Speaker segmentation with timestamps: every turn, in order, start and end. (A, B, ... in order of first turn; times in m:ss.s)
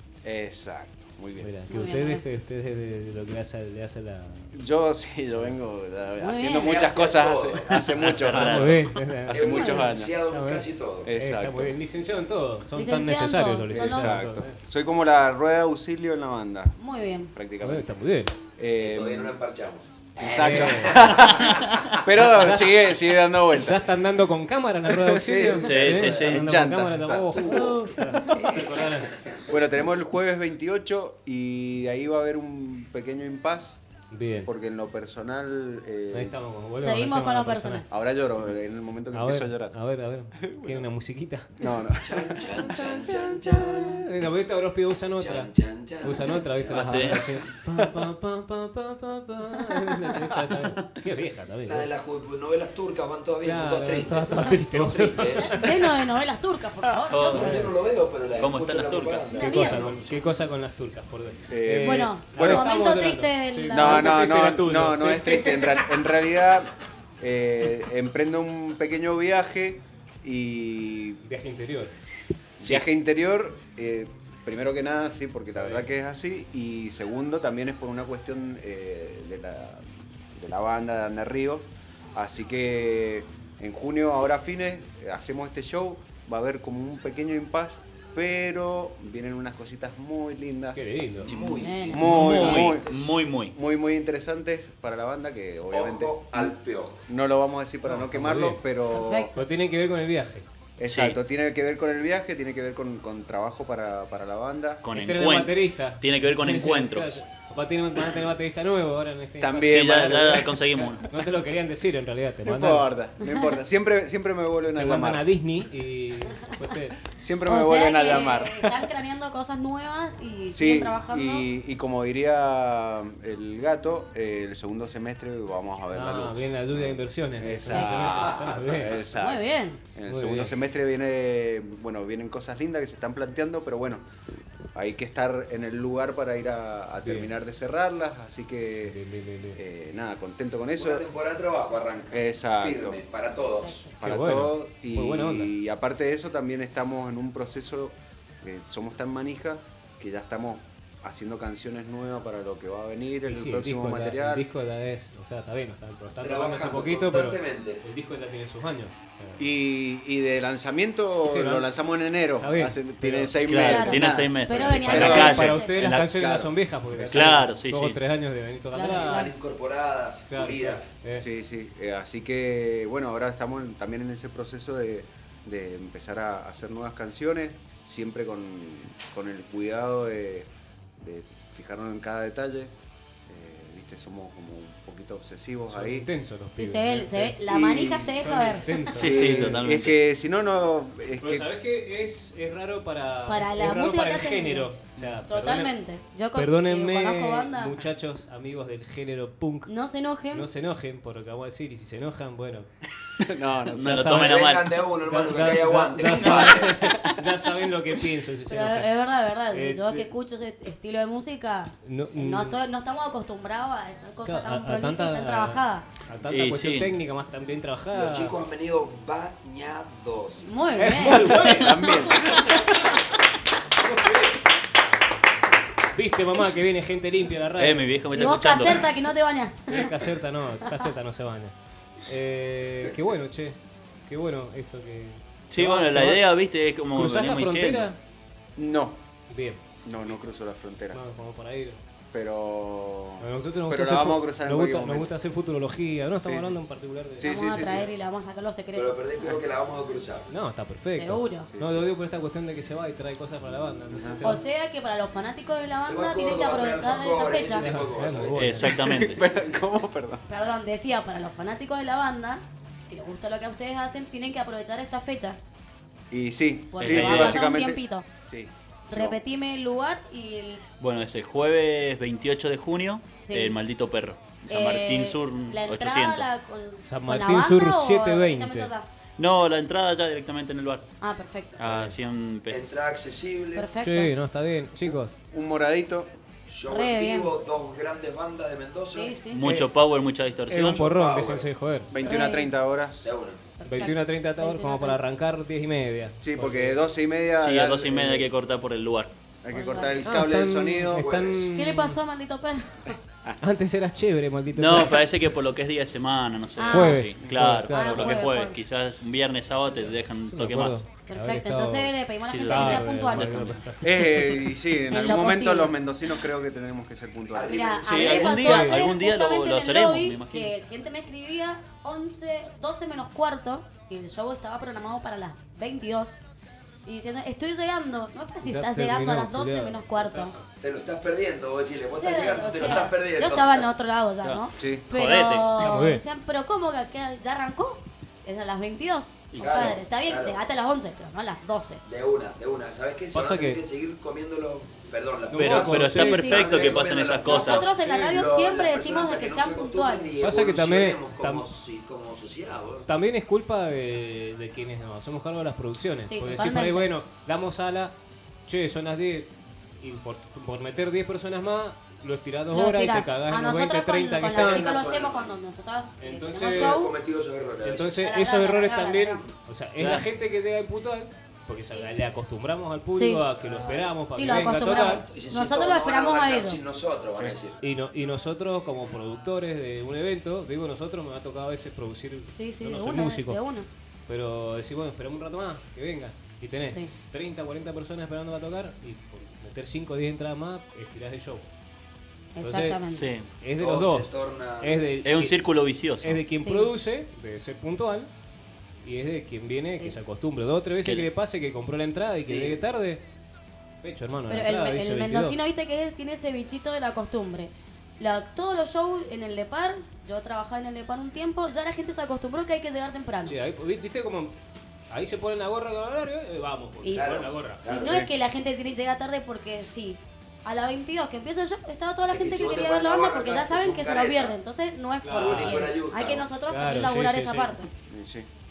0:00.2-0:01.6 A
0:01.4-0:04.5 B
0:01.7-0:02.2 C
0:04.5-0:10.1 A
0:06.2-0:06.8 C
0:06.6-0:07.8 D
0:07.9-0:08.9 E
0:08.3-0:14.6 B
0:09.3-0:11.1 D
0:09.4-0:09.9 C
0:11.0-0:11.8 A
0:12.7-0:14.1 C
0:13.7-0:16.8 A
0:16.8-0:17.3 C
0:17.3-0:17.9 A
0:17.6-0:18.4 B
0:18.6-0:19.4 A
0:18.8-0:21.5 D
0:20.2-0:23.8 A
0:20.2-0:21.1 B
0:21.4-0:21.8 E
0:22.2-0:23.0 B
0:23.5-0:29.1 B
0:24.9-0:27.4 A
0:25.4-0:26.4 D
0:25.6-0:26.5 E
0:27.0-0:29.0 D
0:27.5-0:28.4 C
0:29.5-0:33.8 A
0:34.1-0:34.5 B
0:34.4-0:36.4 A
0:36.1-0:37.8 B
0:36.8-0:37.8 C
0:37.9-0:39.7 A
0:39.1-0:41.7 B
0:40.4-0:40.8 A
0:41.6-0:43.1 A
0:42.0-0:44.0 D
0:42.7-0:45.5 B
0:45.2-0:47.4 D
0:46.0-0:51.9 B
0:46.7-0:47.2 E
0:51.6-0:55.6 D
0:53.4-0:55.9 B
0:55.5-0:57.5 C
0:57.1-0:57.6 E
0:57.3-1:00.3 D
0:57.3-0:57.7 B
0:58.4-0:59.3 E
0:59.3-0:59.9 C
0:59.3-1:05.9 B
1:01.5-1:02.6 A
1:01.8-1:04.2 C
1:03.7-1:11.2 A
1:11.2-1:11.9 B
1:12.6-1:30.9 A
1:15.5-1:15.9 B
1:30.7-1:31.3 B
1:31.2-1:32.0 D
1:31.2-1:33.5 E
1:31.6-1:32.1 C
1:31.9-1:36.5 A
1:32.1-1:32.7 B
1:35.7-1:37.0 D
1:37.0-1:39.3 A
1:37.8-1:38.6 B
1:38.9-1:39.3 C
1:39.3-1:40.5 B
1:40.8-1:44.8 A
1:40.8-1:41.2 E
1:44.8-1:47.2 E
1:44.9-1:52.9 B
1:49.4-1:50.5 A
1:49.7-1:51.1 E
1:52.4-1:55.3 A
1:54.8-1:57.0 B
1:57.1-1:58.8 A
1:57.4-2:01.4 C
2:00.5-2:14.0 A
2:05.9-2:09.0 B
2:07.7-2:08.1 C
2:08.1-2:08.6 D
2:09.1-2:09.8 C
2:10.1-2:10.6 B
2:14.7-2:19.0 A
2:17.0-2:17.3 B
2:18.8-2:19.6 B
2:19.5-2:21.0 A
2:20.8-2:23.8 D
2:22.1-2:23.0 A
2:23.6-2:23.9 C
2:24.0-2:34.5 A
2:24.0-2:25.5 B
2:33.3-2:39.4 B
2:36.2-2:37.8 D
2:39.4-2:47.4 A
2:41.2-2:41.7 B
2:42.4-2:43.9 B
2:43.4-2:46.1 E
2:43.6-2:45.8 C
2:44.6-2:49.3 B
2:47.1-2:48.0 E
2:48.7-2:49.3 C
2:48.8-2:50.9 D
2:50.3-2:51.2 B
2:51.2-3:00.5 A
3:01.0-3:02.7 A
3:03.3-3:06.1 A
3:05.7-3:07.4 B
3:06.5-3:08.9 C
3:07.4-3:08.2 A
3:08.2-3:09.6 B
3:09.0-3:11.5 A
3:09.0-3:10.0 E
3:11.2-3:15.7 B
3:13.2-3:14.7 C
3:15.3-3:17.8 C
3:16.3-3:19.7 B
3:19.6-3:20.5 C
3:20.3-3:22.7 B
3:23.2-3:24.2 A
3:23.7-3:24.9 E
3:23.8-3:24.4 B
3:24.1-3:26.8 D
3:25.0-3:28.9 B
3:26.9-3:27.2 A
3:28.5-3:35.9 C
3:29.5-3:30.1 B
3:31.8-3:32.6 B
3:34.2-3:38.4 B
3:36.3-3:37.0 E
3:37.9-3:40.5 D
3:40.4-3:41.5 C
3:40.7-3:42.8 B
3:41.3-3:42.9 A
3:43.8-3:44.4 B
3:45.9-3:48.2 B
3:47.6-3:48.9 E
3:48.1-3:50.0 C
3:49.7-3:51.5 B
3:52.0-3:56.3 B
3:55.5-3:57.9 E
3:56.9-3:58.0 B
3:58.6-3:59.0 A
3:59.3-3:59.6 B
3:59.8-4:01.0 A
4:00.9-4:01.8 B
4:02.1-4:05.1 A
4:03.2-4:07.9 B
4:06.2-4:06.6 A
4:07.2-4:07.8 A
4:07.2-4:09.0 C
4:08.7-4:10.3 D
4:10.3-4:14.4 B
4:10.9-4:11.5 C
4:11.5-4:11.9 A
4:13.9-4:14.2 A
4:14.2-4:17.8 C
4:15.8-4:18.4 D
4:17.6-4:18.8 B
4:18.3-4:19.2 E
4:18.6-4:20.2 A
4:20.3-4:25.4 C
4:26.1-4:29.2 A
4:26.7-4:28.0 C
4:26.8-4:27.4 E
4:28.9-4:30.6 C
4:30.8-4:36.3 E
4:33.2-4:33.6 C
4:34.5-4:38.9 C
4:36.8-4:38.7 B
4:39.2-4:40.9 E
4:41.0-4:41.9 C
4:41.6-4:42.8 E
4:42.5-4:43.7 D
4:43.5-4:44.1 C
4:43.8-4:45.1 B
4:45.3-4:46.1 A
4:46.5-4:49.2 D
4:46.7-4:47.3 C
4:48.9-4:49.5 C
4:49.3-4:50.9 E
4:49.4-4:49.7 B
4:50.5-4:51.9 B
4:50.8-4:51.5 D
4:51.9-4:53.1 A
4:52.0-4:52.5 C
4:53.0-4:53.4 D
4:53.6-4:55.0 C
4:53.6-4:56.8 B
4:56.2-4:58.3 A
4:57.4-4:59.1 E
4:59.4-5:01.4 A
4:59.5-5:00.2 C
5:00.0-5:02.0 B
5:00.9-5:01.5 D
5:01.5-5:03.0 C
5:03.4-5:05.0 B
5:04.5-5:10.8 E
5:06.6-5:07.1 C
5:06.7-5:08.3 B
5:07.7-5:08.6 C
5:10.3-5:11.9 B
5:11.1-5:13.5 C
5:12.3-5:13.6 E
5:12.4-5:14.4 B
5:13.8-5:17.8 A
5:14.9-5:15.7 C
5:17.3-5:18.9 D
5:17.5-5:26.2 C
5:17.9-5:20.5 E
5:26.8-5:30.3 C
5:28.4-5:30.4 B
5:30.6-5:33.7 D
5:32.0-5:41.8 C
5:34.2-5:35.5 E
5:34.6-5:34.8 A
5:35.6-5:36.0 B
5:39.3-5:39.8 E
5:39.4-5:40.4 D
5:41.8-5:52.9 D
5:43.1-5:43.6 B
5:45.3-5:46.4 B
5:45.3-5:47.7 E
5:46.0-5:46.7 C
5:47.3-5:50.2 C
5:47.8-5:48.2 B
5:50.2-5:51.5 B
5:52.8-5:57.9 B
5:56.0-5:56.9 C
5:58.5-6:04.7 B
6:02.5-6:06.9 C
6:04.3-6:05.4 D
6:06.0-6:06.8 B
6:06.4-6:08.0 D
6:07.6-6:15.0 B
6:08.0-6:09.2 C
6:09.8-6:10.1 E
6:12.9-6:13.3 C
6:13.4-6:17.6 D
6:14.1-6:16.6 C
6:17.6-6:23.4 B
6:22.3-6:23.7 C
6:24.1-6:31.5 B
6:32.3-6:33.0 C
6:32.4-6:32.8 B
6:32.9-6:33.3 E
6:33.4-6:35.4 B
6:33.6-6:34.8 D
6:35.0-6:36.2 E
6:36.0-6:38.1 B
6:36.3-6:36.7 C
6:38.8-6:43.0 B
6:40.8-6:41.1 E
6:42.2-6:42.6 D
6:43.8-6:45.4 B
6:44.3-6:53.4 C
6:53.2-6:54.3 B
6:54.9-6:57.7 B
6:56.8-7:07.7 C
6:56.9-6:58.0 D
6:57.8-6:58.1 A
7:02.1-7:04.4 D
7:05.0-7:05.7 B
7:05.1-7:06.3 D
7:06.5-7:07.6 B
7:07.8-7:08.3 A